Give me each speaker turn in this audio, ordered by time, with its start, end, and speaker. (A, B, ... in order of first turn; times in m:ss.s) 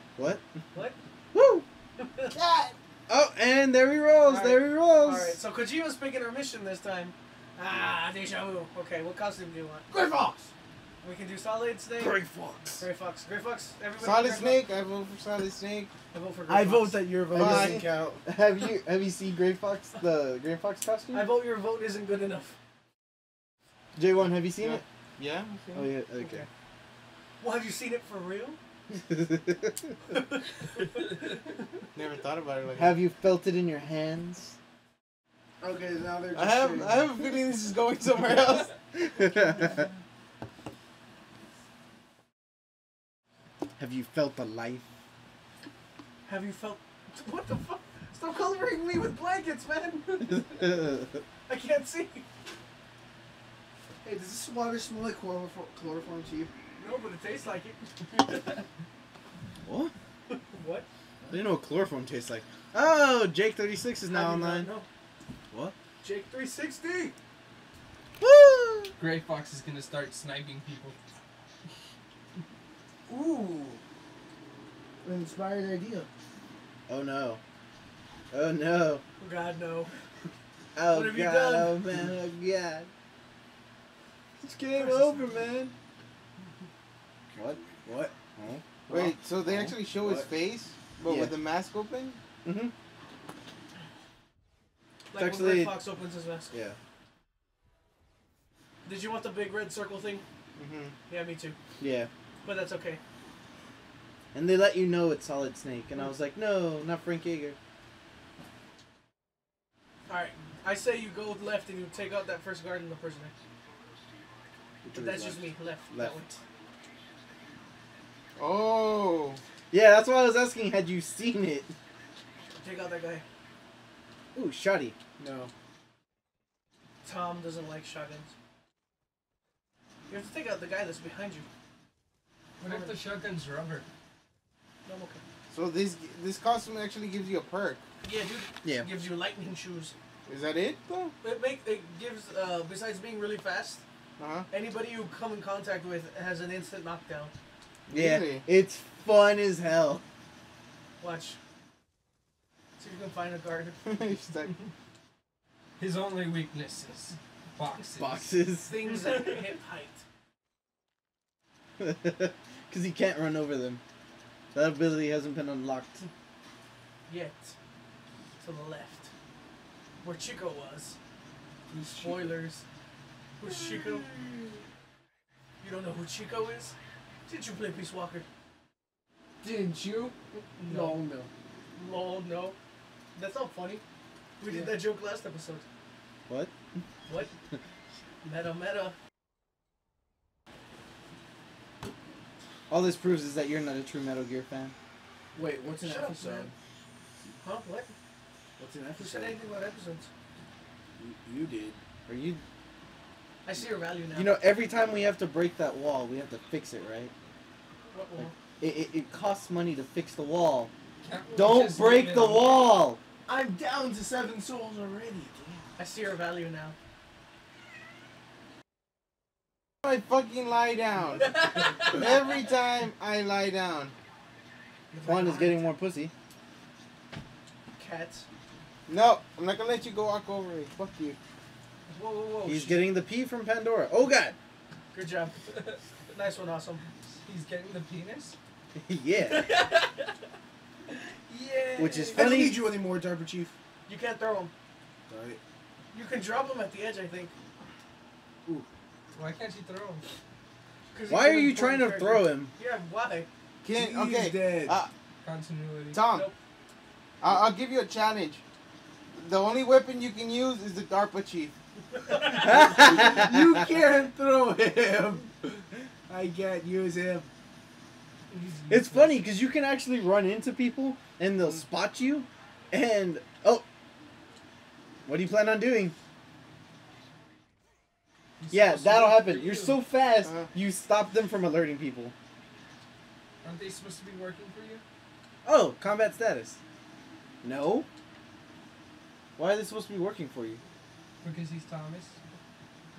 0:00.2-0:00.4 A
0:01.3-0:01.6 A
0:02.0-0:02.3 B
0:02.4-0:02.7 C
0:03.1-0:05.4 A
0:04.2-0:09.9 B
0:09.9-0:10.4 D
0:11.0-0:12.2 B
0:12.3-0:12.6 A
0:12.8-0:14.7 B
0:14.0-0:15.9 C
0:16.1-0:17.1 B
0:16.5-0:17.7 D
0:17.1-0:21.3 A
0:17.3-0:18.2 C
0:21.1-0:22.5 B
0:23.9-0:24.8 A
0:24.6-0:25.9 C
0:25.7-0:26.5 A
0:26.2-0:26.5 B
0:27.4-0:28.6 B
0:28.9-0:29.9 A
0:30.1-0:30.4 B
0:31.0-0:31.2 E
0:31.9-0:33.0 C
0:32.7-0:34.6 A
0:35.6-0:37.2 D
0:36.3-0:38.7 C
0:39.0-0:39.7 A
0:43.8-0:44.8 A
0:46.2-0:50.9 B
0:50.6-0:50.9 A
0:51.5-0:52.2 B
0:54.0-0:56.5 D
0:56.8-0:58.6 B
0:59.6-0:59.9 A
1:00.3-1:00.8 B
1:01.3-1:04.7 A
1:04.1-1:04.9 B
1:06.0-1:07.1 B
1:08.2-1:08.9 A
1:09.0-1:11.0 E
1:13.1-1:13.8 D
1:15.0-1:16.1 D
1:16.9-1:17.4 A
1:18.3-1:19.0 A
1:19.2-1:19.9 B
1:20.7-1:22.9 A
1:20.9-1:21.8 B
1:24.4-1:25.7 A
1:24.7-1:25.3 B
1:27.3-1:27.6 A
1:27.6-1:28.1 D
1:28.3-1:30.2 A
1:28.9-1:32.2 C
1:31.0-1:31.3 A
1:32.4-1:32.7 A
1:35.1-1:36.5 B
1:35.1-1:35.8 A
1:36.5-1:36.8 A
1:38.8-1:40.2 B
1:40.6-1:40.9 C
1:41.1-1:41.6 B
1:41.8-1:42.1 A
1:42.4-1:43.0 B
1:44.3-1:47.6 A
1:50.1-1:53.3 B
1:54.8-1:55.5 D
1:54.9-1:56.4 B
1:55.9-1:56.2 A
1:58.4-1:59.4 C
1:59.7-2:01.7 A
2:02.6-2:03.2 B
2:04.3-2:05.0 A
2:05.2-2:05.5 D
2:07.0-2:08.3 B
2:10.1-2:11.4 B
2:12.6-2:13.0 B
2:12.6-2:13.8 E
2:14.8-2:15.2 B
2:15.5-2:17.8 C
2:18.0-2:19.9 B
2:20.2-2:21.1 C
2:21.2-2:23.8 B
2:24.2-2:24.5 C
2:24.5-2:27.3 B
2:27.9-2:28.4 C
2:27.9-2:30.0 A
2:31.0-2:31.4 B
2:32.8-2:33.8 B
2:33.8-2:34.5 C
2:35.8-2:38.3 E
2:38.0-2:38.8 A
2:38.7-2:40.0 B
2:38.9-2:39.4 E
2:41.8-2:43.8 A
2:44.5-2:46.0 A
2:47.1-2:47.5 B
2:48.4-2:49.1 B
2:50.0-2:51.0 B
2:51.7-2:52.4 D
2:52.0-2:52.6 B
2:53.4-2:54.1 B
2:55.6-2:56.7 B
2:57.3-2:58.2 B
2:59.4-3:01.3 D
3:00.6-3:01.0 B
3:01.7-3:02.6 B
3:03.2-3:03.8 B
3:04.4-3:05.6 B
3:06.3-3:06.8 A
3:08.2-3:08.9 B
3:12.7-3:14.7 A
3:15.3-3:16.5 D
3:15.8-3:16.5 B
3:17.4-3:17.9 B
3:18.6-3:19.4 D
3:19.0-3:20.1 B
3:21.0-3:21.8 D
3:22.1-3:22.4 A
3:23.4-3:24.4 B
3:24.1-3:27.1 A
3:27.9-3:28.3 B
3:28.2-3:30.7 A
3:31.0-3:32.5 E
3:31.3-3:33.0 A
3:33.2-3:35.7 D
3:35.8-3:36.7 B
3:39.8-3:43.9 C
3:41.2-3:42.1 B
3:44.9-3:45.7 B
3:45.0-3:46.1 A
3:47.8-3:48.2 B
3:48.9-3:51.2 C
3:51.9-3:52.8 B
3:52.4-3:54.4 A
3:54.9-3:55.5 B
3:55.5-3:55.8 E
3:56.1-3:56.8 B
3:57.2-3:58.4 E
3:58.7-3:59.5 A
3:59.2-4:00.1 E
4:00.9-4:02.4 E
4:01.8-4:02.6 A
4:02.1-4:03.5 D
4:03.9-4:04.5 B
4:05.1-4:05.4 D
4:05.9-4:07.3 B
4:09.1-4:10.0 E
4:10.9-4:13.3 B
4:11.1-4:12.5 A
4:13.6-4:14.9 C
4:13.7-4:14.8 D
4:15.2-4:16.0 E
4:15.9-4:16.3 C
4:17.2-4:18.4 C
4:19.1-4:21.5 C
4:21.9-4:23.1 B
4:22.3-4:27.3 D
4:22.4-4:23.3 A
4:28.3-4:29.2 E
4:28.7-4:33.6 A
4:35.0-4:35.9 A
4:38.4-4:39.8 E
4:38.5-4:42.1 A
4:40.2-4:40.5 C
4:43.4-4:44.8 E
4:45.4-4:46.6 A
4:47.4-4:47.9 A
4:49.4-4:50.6 A
4:51.2-4:52.2 E